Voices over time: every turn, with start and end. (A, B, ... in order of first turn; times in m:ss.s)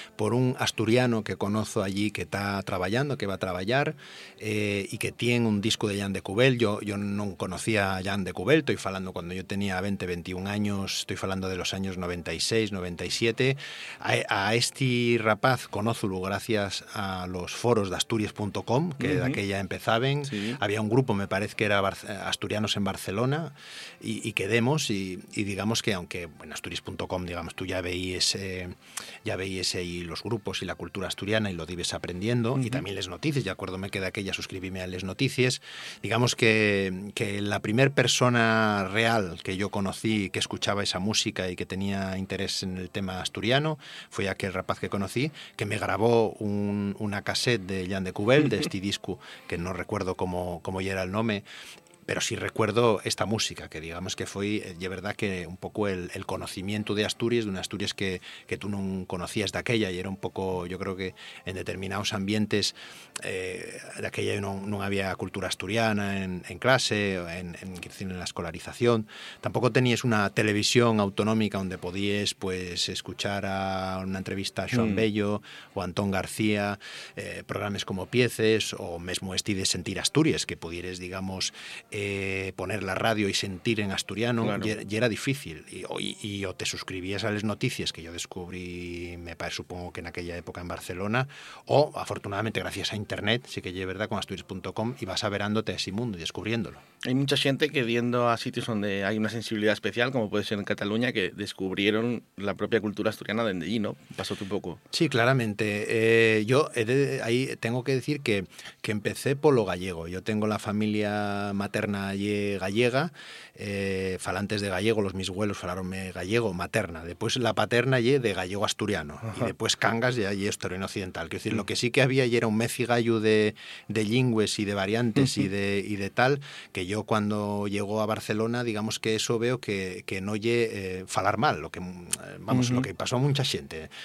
0:00.2-0:51.4 A
0:19.0-0:19.4 B
0:20.2-0:20.6 B
0:32.6-0:32.8 B
0:52.0-1:36.8 A
1:14.7-1:15.0 B
1:24.4-1:24.7 B
1:37.0-1:44.8 B
1:44.9-2:13.9 A
1:59.2-1:59.5 B
2:05.2-2:05.5 B
2:12.5-2:12.9 B